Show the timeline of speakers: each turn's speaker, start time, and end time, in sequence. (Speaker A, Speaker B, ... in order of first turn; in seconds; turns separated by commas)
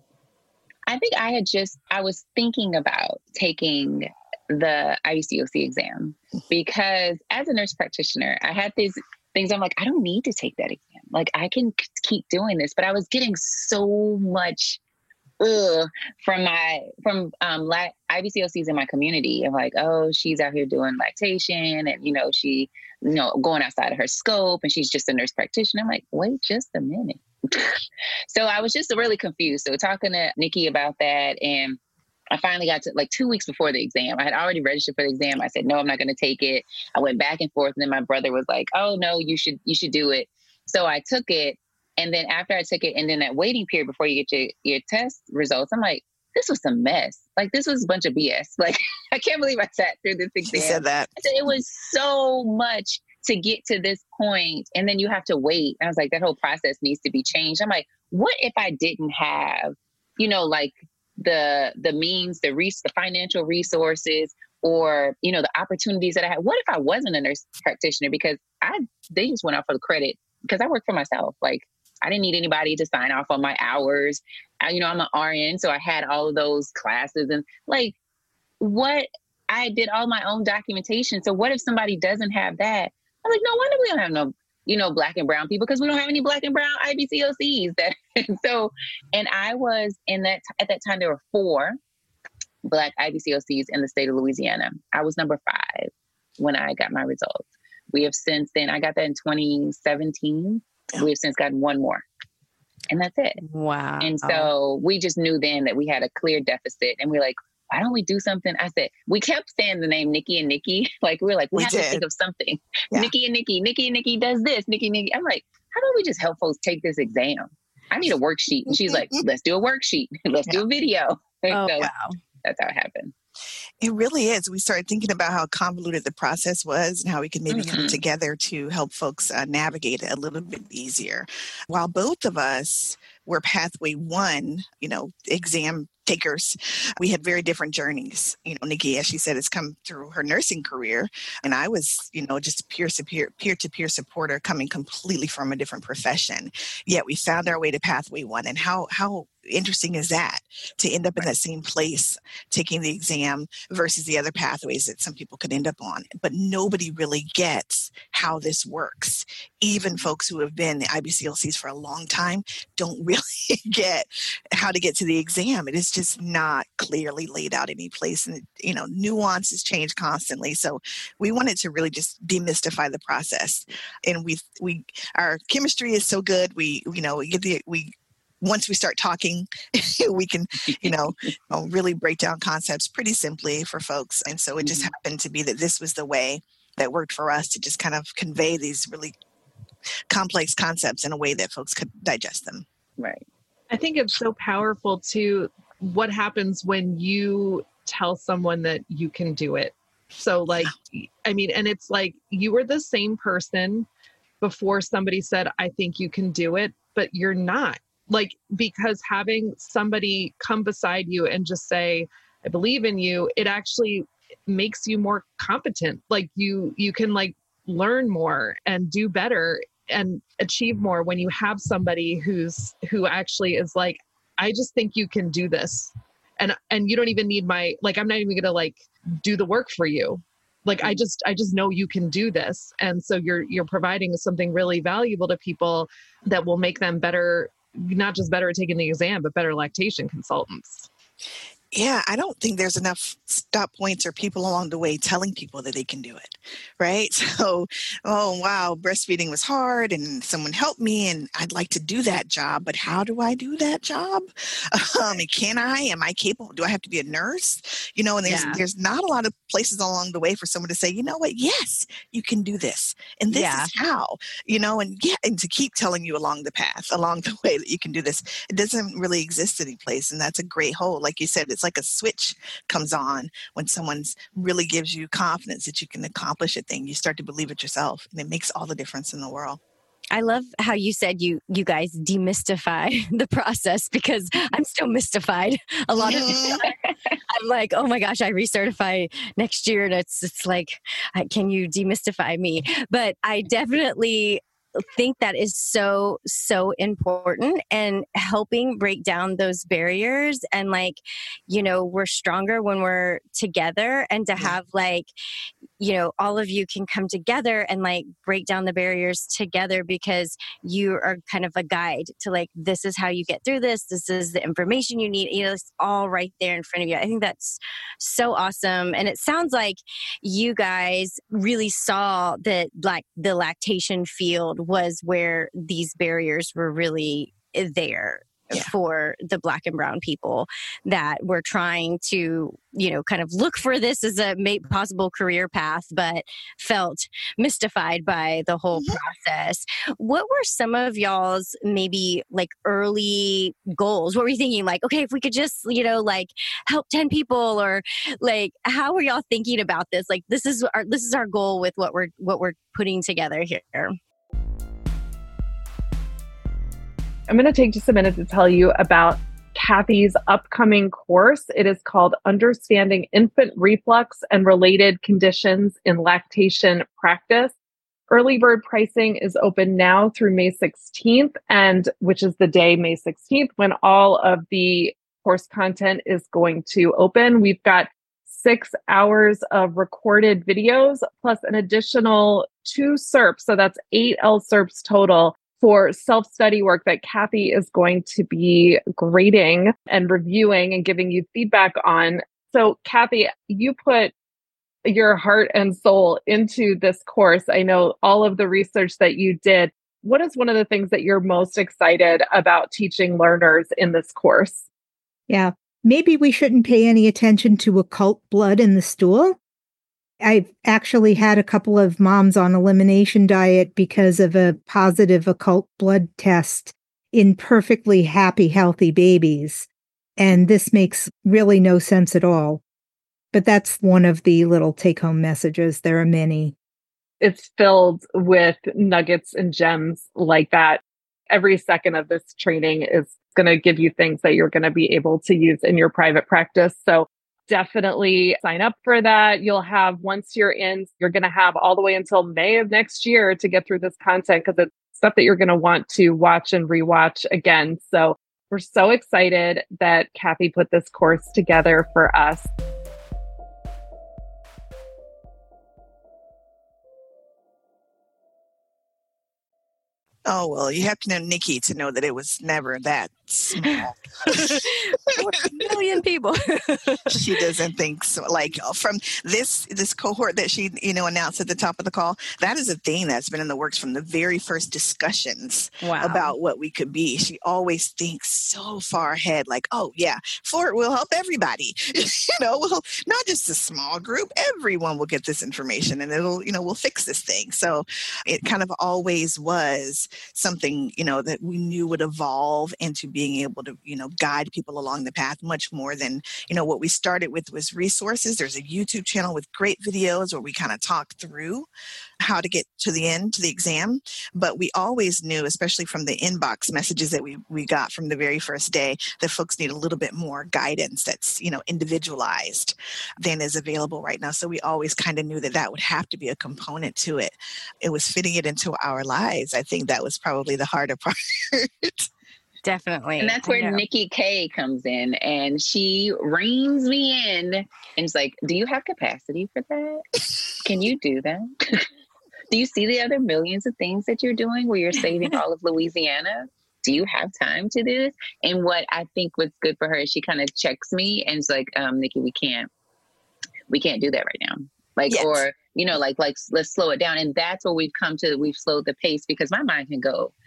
Speaker A: 0.9-14.8, Speaker A: 15.4-31.8, Speaker A: 32.3-78.0, Speaker B: 50.5-51.1, Speaker A: 78.6-91.8, Speaker A: 92.6-102.0, Speaker A: 102.9-103.4, Speaker C: 103.4-104.5, Speaker A: 104.0-121.9, Speaker B: 111.5-112.0, Speaker B: 118.7-119.2, Speaker C: 121.5-122.2, Speaker A: 122.4-123.1, Speaker B: 123.8-189.1, Speaker A: 127.5-128.0, Speaker A: 180.7-181.0, Speaker A: 184.6-184.9, Speaker B: 190.1-192.7, Speaker D: 193.7-203.9, Speaker D: 204.4-240.9, Speaker B: 241.7-279.6, Speaker C: 258.2-258.6, Speaker C: 263.3-263.7, Speaker C: 280.1-286.7, Speaker B: 286.0-286.6, Speaker C: 287.3-294.4, Speaker C: 294.9-305.1, Speaker C: 305.8-353.9, Speaker B: 338.7-339.0, Speaker D: 357.3-367.5, Speaker D: 368.1-394.1, Speaker D: 394.9-404.6, Speaker E: 405.3-409.4, Speaker E: 410.2-422.6, Speaker E: 423.3-426.6, Speaker D: 427.2-452.5, Speaker B: 460.3-464.6, Speaker C: 463.6-467.2, Speaker B: 467.1-501.7, Speaker C: 475.8-476.3, Speaker B: 502.2-522.1, Speaker C: 522.6-523.8, Speaker A: 523.2-530.0, Speaker A: 530.6-531.9, Speaker A: 532.5-542.7, Speaker A: 543.7-550.3, Speaker B: 545.1-545.4